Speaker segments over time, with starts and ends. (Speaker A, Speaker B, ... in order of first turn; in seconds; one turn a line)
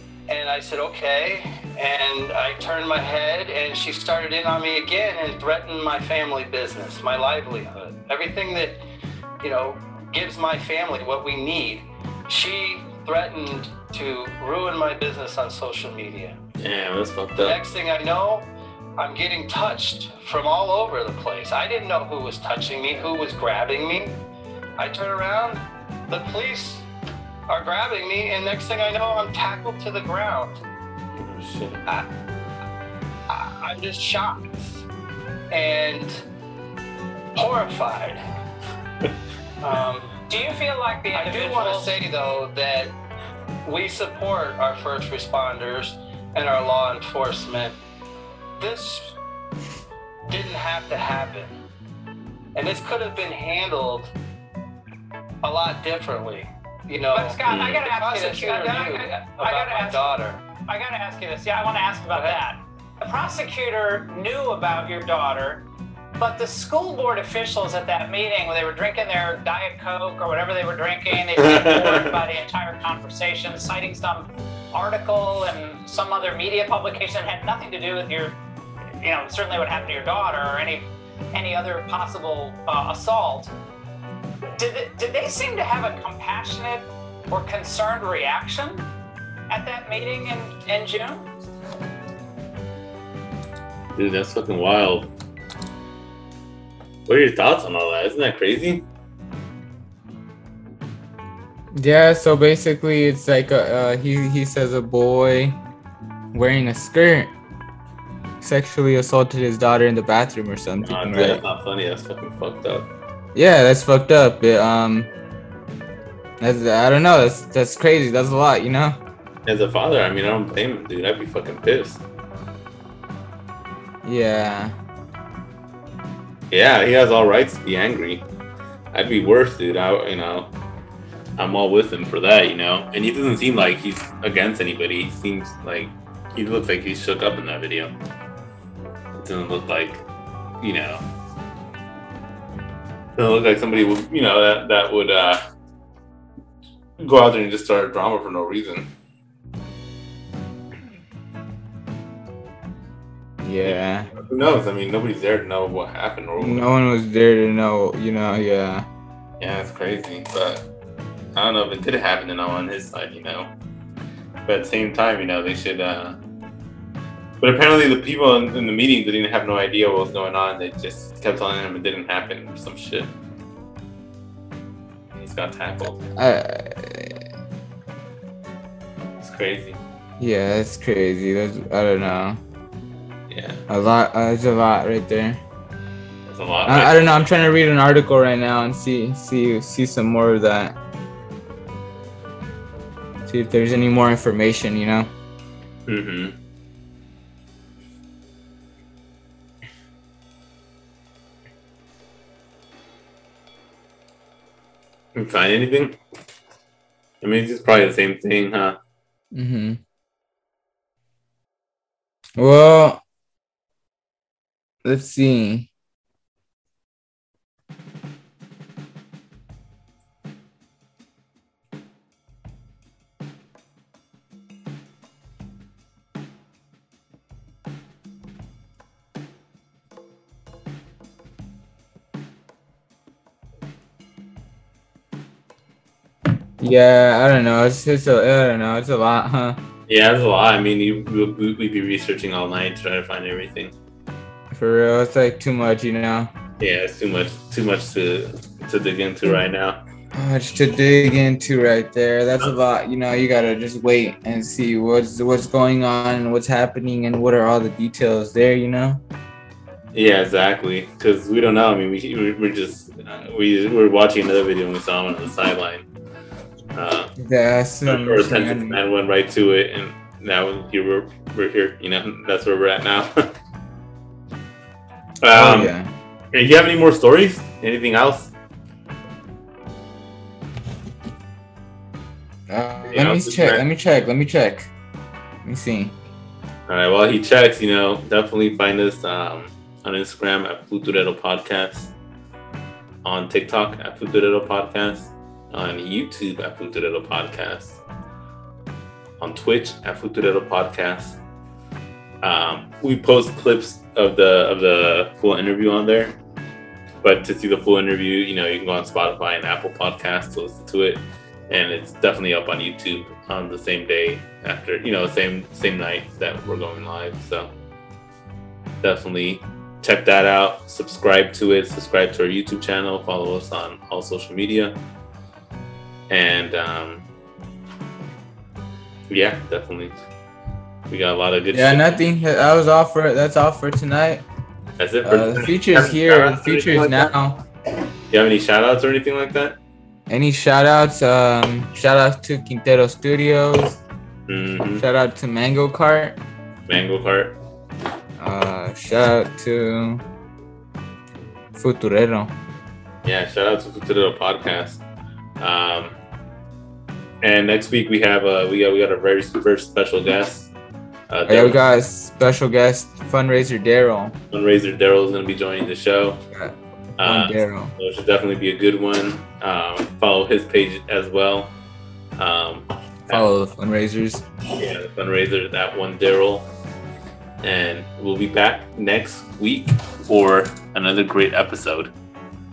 Speaker A: 0.3-8.8
Speaker A: 9.4-16.4
Speaker B: 16.6-17.6
Speaker A: 17.4-24.2
Speaker A: 24.8-26.9
Speaker A: 27.5-30.6
Speaker B: 31.1-31.9
Speaker A: 33.3-34.8
Speaker A: 35.5-36.2
Speaker A: 37.4-38.2
Speaker A: 39.6-40.2
Speaker C: 40.3-42.0
Speaker A: 41.1-43.0
Speaker A: 43.6-47.8
Speaker A: 48.6-49.2
Speaker A: 50.3-51.5
Speaker A: 52.5-54.1
Speaker A: 55.4-60.5
Speaker C: 57.1-65.7
Speaker B: 57.5-57.9
Speaker A: 62.1-62.4
Speaker C: 66.2-78.4
Speaker B: 71.3-72.2
Speaker C: 79.0-83.5
Speaker C: 84.6-88.9
Speaker C: 89.5-91.3
Speaker B: 94.0-95.1
Speaker B: 97.1-98.9
Speaker D: 101.8-105.6
Speaker D: 106.3-107.3
Speaker D: 108.4-111.4
Speaker B: 110.8-112.9
Speaker D: 113.3-115.1
Speaker D: 116.4-119.0
Speaker B: 119.5-122.0
Speaker D: 124.0-124.8
Speaker B: 126.5-128.2
Speaker B: 128.9-130.5
Speaker B: 131.4-138.0
Speaker B: 139.2-140.0
Speaker B: 140.6-141.0
Speaker B: 143.2-145.4
Speaker B: 147.0-148.9
Speaker D: 153.4-154.1
Speaker B: 153.6-156.7
Speaker D: 156.4-158.9
Speaker B: 159.4-160.7
Speaker B: 161.3-163.5
Speaker B: 164.5-166.2
Speaker B: 167.4-173.1
Speaker B: 175.1-176.0
Speaker D: 176.2-177.2
Speaker B: 179.2-179.8
Speaker D: 180.2-182.4
Speaker B: 183.3-183.6
Speaker D: 183.7-185.4
Speaker B: 186.3-187.2
Speaker D: 186.7-190.8
Speaker D: 193.3-195.1
Speaker B: 195.9-196.4
Speaker B: 205.2-206.0
Speaker B: 207.2-208.8
Speaker D: 209.3-209.8
Speaker D: 212.4-213.0
Speaker D: 214.8-215.7
Speaker D: 236.6-239.6
Speaker B: 239.9-243.7
Speaker D: 244.5-246.3
Speaker B: 246.6-249.8
Speaker D: 250.1-259.0
Speaker B: 259.9-265.8
Speaker B: 266.8-267.1
Speaker D: 267.2-268.8
Speaker B: 267.9-273.1
Speaker B: 275.2-275.7
Speaker D: 275.3-275.9
Speaker B: 276.3-278.3
Speaker D: 282.5-284.7
Speaker B: 282.9-283.6
Speaker D: 285.4-286.0
Speaker B: 286.7-291.9
Speaker B: 293.0-297.8
Speaker B: 299.2-301.2
Speaker B: 302.2-306.1
Speaker B: 307.0-317.5
Speaker B: 318.8-324.8
Speaker B: 326.1-327.1
Speaker B: 329.1-330.0
Speaker B: 330.9-332.1
Speaker D: 331.5-334.2
Speaker B: 334.8-337.1
Speaker D: 335.1-337.4
Speaker B: 338.1-339.6
Speaker D: 340.1-343.8
Speaker B: 344.3-344.8
Speaker D: 344.8-346.2
Speaker B: 346.7-347.4
Speaker D: 348.2-350.0
Speaker D: 351.6-352.3
Speaker B: 353.0-354.8
Speaker B: 355.4-356.0
Speaker B: 357.2-360.5
Speaker B: 361.1-361.6
Speaker D: 361.3-364.2
Speaker B: 364.3-366.2
Speaker D: 366.3-367.7
Speaker B: 367.0-371.5
Speaker B: 372.2-373.3
Speaker D: 373.1-374.3
Speaker B: 374.5-376.5
Speaker B: 377.4-381.9